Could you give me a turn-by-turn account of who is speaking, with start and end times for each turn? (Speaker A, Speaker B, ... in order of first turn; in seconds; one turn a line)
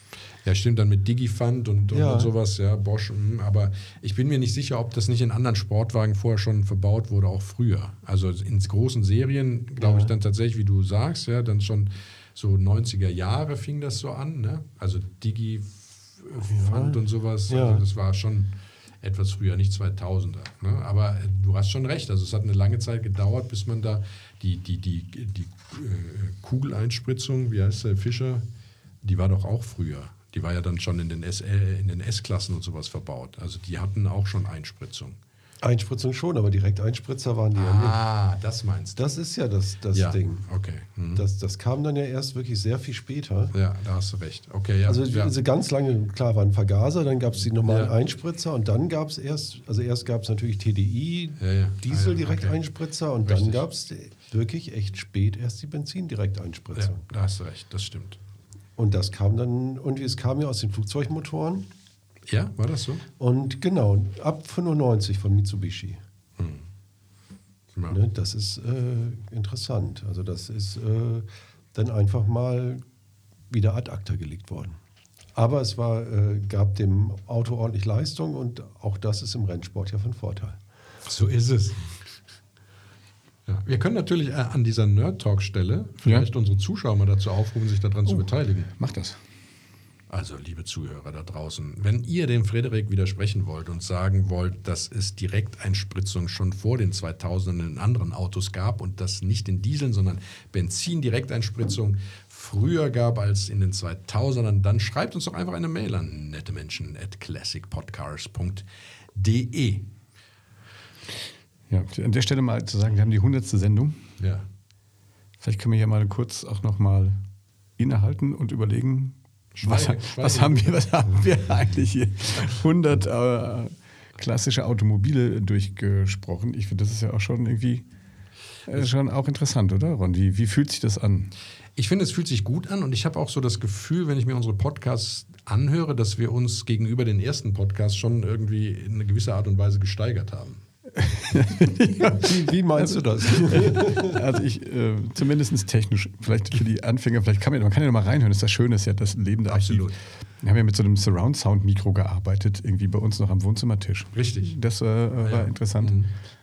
Speaker A: 0.4-28.4
Speaker B: 1.9-2.3
Speaker B: 9.8-10.1
Speaker B: 16.4-17.8
Speaker A: 29.0-35.2
Speaker B: 35.6-38.0
Speaker A: 37.5-39.1
Speaker B: 39.0-40.5
Speaker A: 39.9-41.2
Speaker B: 41.1-43.5
Speaker A: 43.5-45.3
Speaker B: 44.9-57.0
Speaker A: 47.7-47.9
Speaker A: 51.4-52.6
Speaker A: 53.3-53.6
Speaker A: 56.8-58.2
Speaker B: 58.8-61.7
Speaker A: 62.3-63.0
Speaker B: 63.2-66.0
Speaker A: 66.4-66.7
Speaker B: 67.9-72.8
Speaker B: 73.5-74.8
Speaker B: 75.4-80.6
Speaker A: 81.0-81.9
Speaker A: 83.5-88.7
Speaker C: 88.1-89.2
Speaker A: 90.1-109.9
Speaker C: 111.7-114.0
Speaker A: 114.2-114.5
Speaker C: 115.4-117.2
Speaker C: 117.8-127.8
Speaker A: 119.6-120.8
Speaker C: 128.7-131.3
Speaker A: 131.8-140.6
Speaker C: 141.0-149.9
Speaker B: 142.0-144.2
Speaker A: 149.5-150.0
Speaker C: 150.4-156.0
Speaker A: 154.2-154.5
Speaker A: 155.2-156.1